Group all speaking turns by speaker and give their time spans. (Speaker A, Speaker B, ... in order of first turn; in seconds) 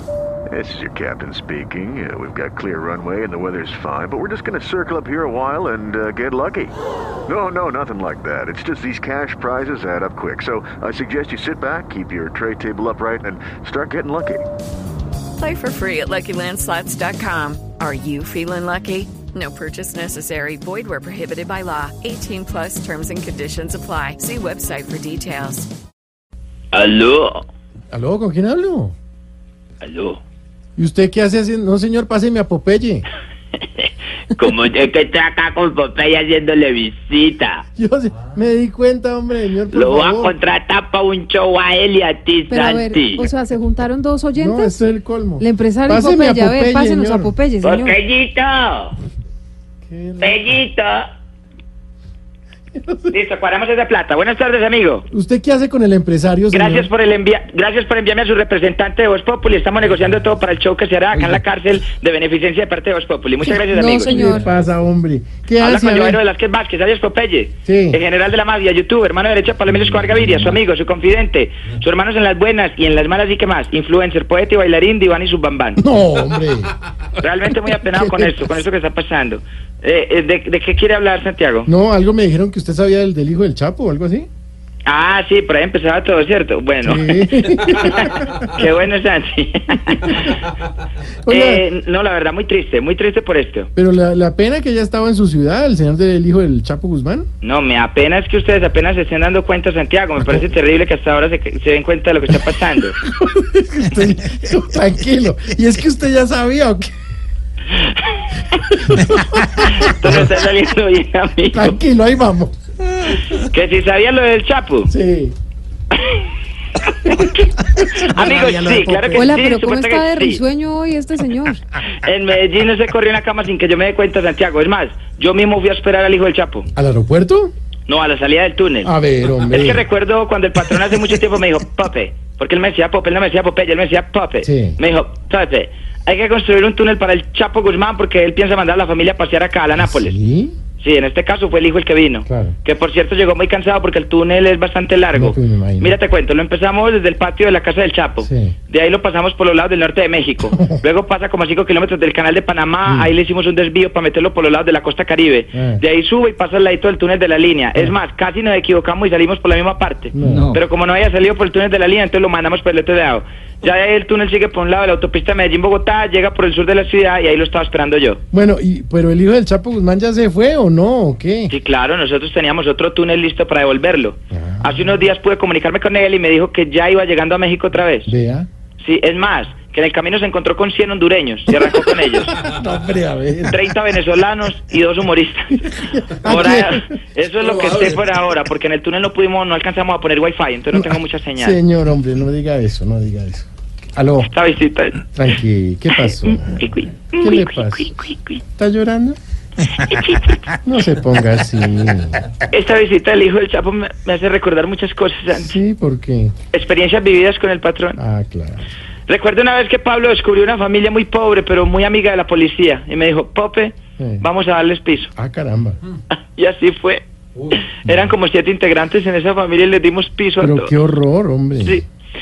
Speaker A: 0.5-6.7, 7.3-14.4
Speaker B: 15.4-25.7, 34.4-37.2, 39.8-43.3, 47.6-48.1, 50.2-50.8, 118.2-119.3, 160.2-160.6
Speaker C: 26.7-27.3, 29.8-30.2, 34.4-37.6, 40.1-42.3, 48.1-48.8, 50.4-50.9, 53.1-55.0, 56.5-64.2, 65.6-75.8, 77.2-81.7, 84.8-90.4, 91.3-93.7, 97.4-103.0, 109.6-111.8, 113.3-114.9, 116.0-116.2, 117.1-117.4, 118.1-120.4, 122.0-126.7, 127.9-128.9, 129.5-140.1, 140.8-168.2, 171.5-178.1, 178.8-182.3, 183.5-185.6, 186.2-191.6, 194.2-195.0, 196.0-198.4, 199.8-200.4, 202.5-205.5, 206.5-208.0, 209.1-215.1, 216.3-220.7
Speaker D: 27.9-28.9, 30.8-33.0, 37.8-40.4, 44.3-47.3, 49.9-50.5, 52.7-53.2, 55.1-56.9, 64.1-66.2, 67.7-68.0, 69.7-70.5, 75.8-76.7, 77.5-78.6, 81.7-84.3, 86.8-88.4, 91.2-91.6, 93.8-97.3, 100.2-100.5, 103.0-106.9, 108.7-109.8, 111.5-112.5, 114.9-115.3, 117.0-117.3, 126.8-127.5, 128.8-129.8, 134.4-134.8, 139.8-140.5, 142.2-142.5, 145.1-146.0, 148.2-148.5, 152.8-153.1, 155.5-155.8, 160.1-160.6, 168.3-171.5, 174.3-175.0, 178.1-178.5, 181.5-183.7, 185.6-186.9, 190.7-194.3, 195.1-196.6, 197.2-197.9, 198.6-199.2, 200.6-202.2, 205.3-206.3, 208.0-208.7, 214.0-214.3, 215.2-215.8, 220.4-221.8
Speaker E: 42.5-44.7, 45.4-48.0, 63.4-64.5, 119.1-121.6